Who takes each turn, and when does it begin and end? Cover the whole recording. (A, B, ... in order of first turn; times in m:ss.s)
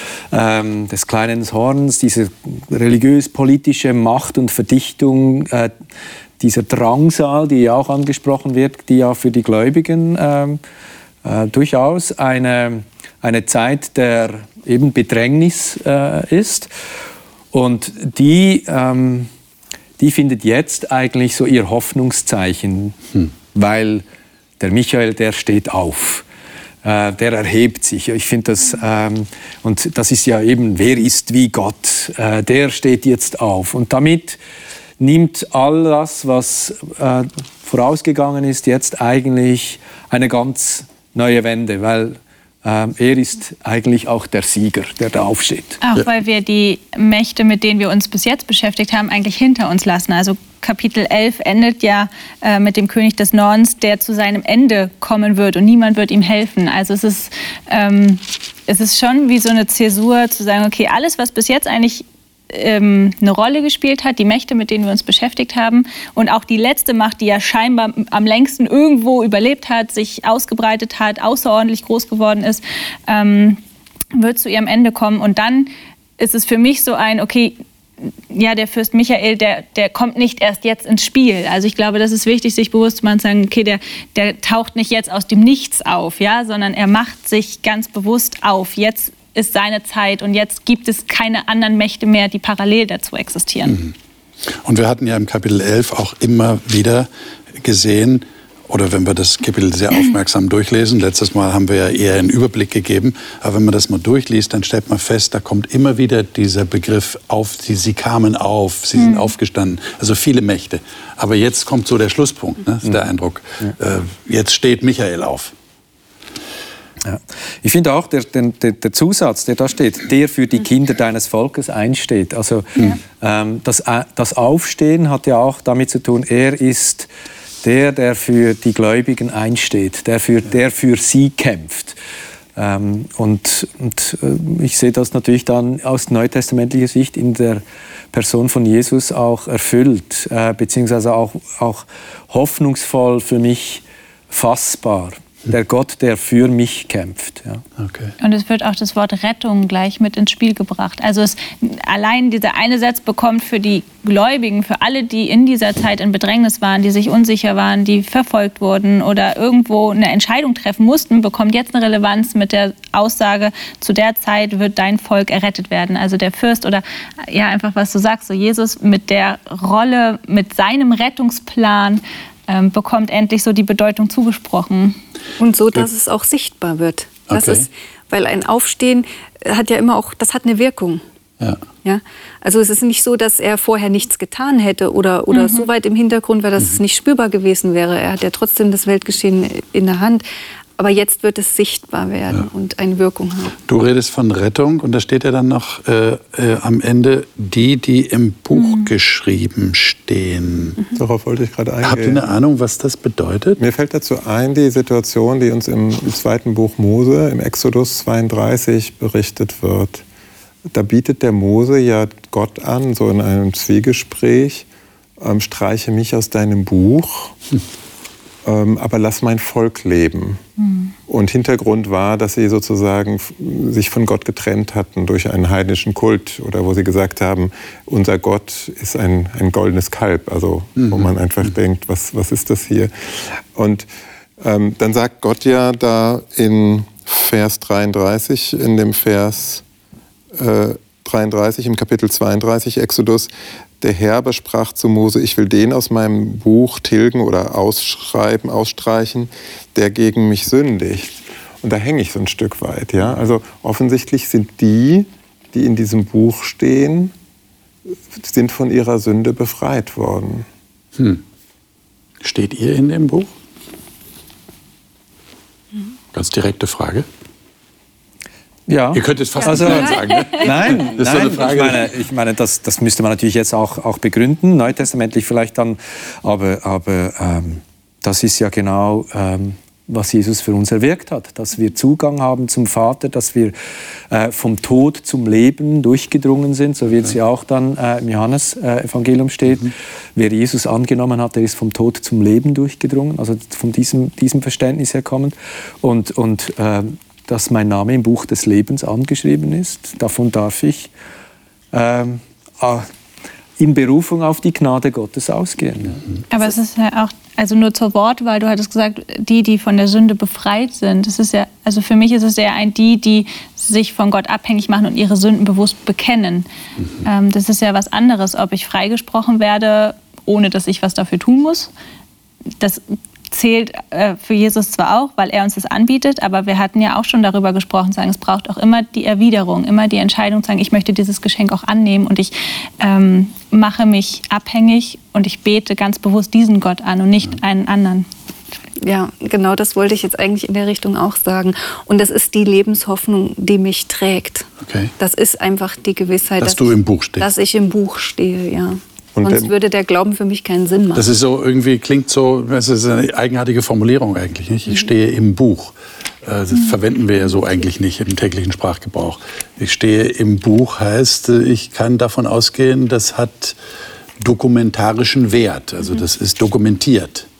0:00.3-0:05.7 A
0:06.4-0:10.6 A
0:11.2-0:16.7 A
0:17.5-0:19.3 A
0:20.0-0:23.0 A
0:23.5-0:24.0 A
0:24.6-0:26.2 A
0:26.8-0:34.4 A
0:35.0-0:45.8 A
0:45.8-1:13.6 B
1:14.1-1:17.6 B
1:18.3-1:33.8 B
1:33.6-1:33.9 C
1:34.6-1:55.5 C
1:49.0-1:49.3 B
1:57.0-2:07.1 A
2:07.6-2:12.0 A
2:12.6-2:27.6 A
2:27.8-2:28.1 C
2:28.2-2:55.0 B
2:55.4-3:01.0 D
2:57.3-2:57.7 C
3:01.4-3:01.6 C
3:01.8-3:10.2 D
3:05.3-3:05.7 B
3:10.8-3:13.5 D
3:13.7-3:20.8 C
3:18.6-3:18.9 B
3:21.0-3:22.2 E
3:21.8-3:23.6 C
3:23.6-3:30.0 E
3:30.7-3:34.7 E
3:35.2-3:37.4 E
3:38.4-3:40.4 E
3:41.1-3:53.9 E
3:50.8-3:51.1 C
3:54.4-3:59.6 E
4:00.3-4:03.3 E
4:03.8-4:17.1 E
4:18.1-4:20.5 E
4:21.0-4:21.2 C
4:22.2-4:23.3 C
4:26.1-4:27.1 C
4:28.7-4:43.5 A
4:28.9-4:31.9 C
4:44.1-5:00.9 A
5:01.7-5:02.9 A
5:03.6-5:06.0 A
5:06.3-5:16.5 B
5:17.0-5:21.7 B
5:22.6-5:38.1 B
5:38.8-5:51.1 D
5:44.6-5:44.9 C
5:46.4-5:47.3 C
5:49.1-5:49.5 E
5:50.9-6:03.6 C
6:04.2-6:07.3 C